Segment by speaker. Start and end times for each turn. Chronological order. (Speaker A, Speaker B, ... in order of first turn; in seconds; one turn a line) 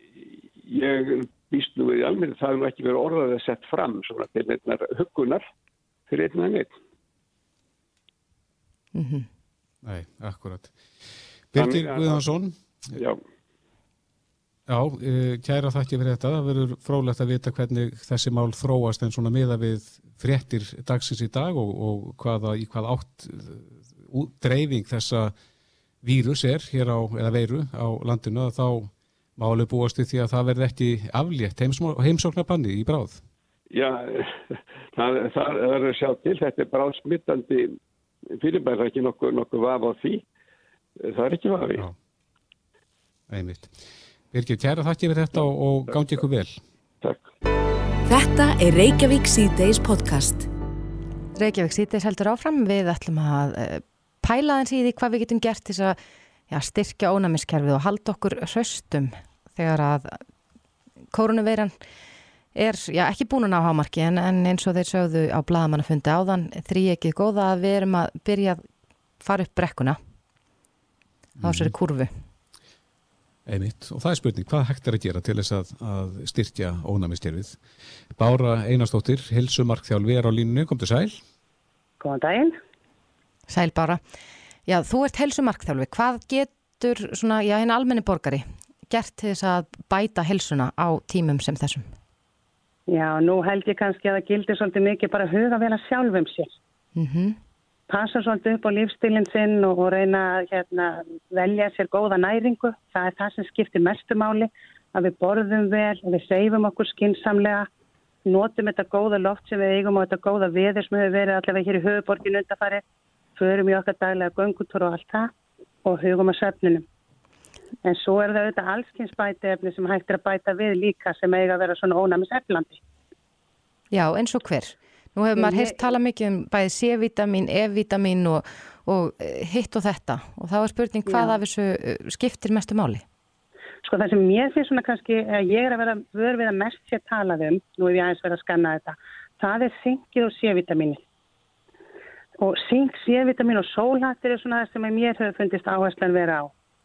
Speaker A: 0.6-5.5
Speaker A: 6.1-6.7
Speaker B: 8.9-9.3
Speaker C: 9.8-10.8
Speaker C: 11.5-12.6
Speaker A: 11.6-12.2
Speaker A: 12.9-13.2
Speaker C: 14.7-25.3
Speaker C: 26.0-33.2
Speaker A: 33.7-37.8
Speaker A: 38.4-40.2
Speaker A: 41.0-41.9
Speaker C: 43.3-43.7
Speaker C: 44.3-46.6
Speaker D: 48.1-50.5
Speaker B: 51.4-56.0
Speaker B: 56.5-60.2
Speaker B: 61.1-61.7
Speaker B: 62.5-68.6
Speaker B: 69.2-70.0
Speaker C: 71.4-71.7
Speaker B: 71.4-72.1
Speaker C: 73.5-77.6
Speaker C: 78.2-81.2
Speaker E: 82.0-82.6
Speaker B: 83.5-84.0
Speaker B: 84.7-91.9
Speaker E: 92.9-96.5
Speaker B: 97.0-97.4
Speaker E: 97.9-107.7
Speaker E: 108.3-112.8
Speaker E: 113.4-115.3
Speaker E: 115.8-116.8
Speaker E: 117.8-122.8
Speaker B: 123.9-133.0
Speaker E: 125.4-125.9
Speaker E: 131.1-131.4
Speaker E: 133.8-141.0
Speaker E: 142.4-146.5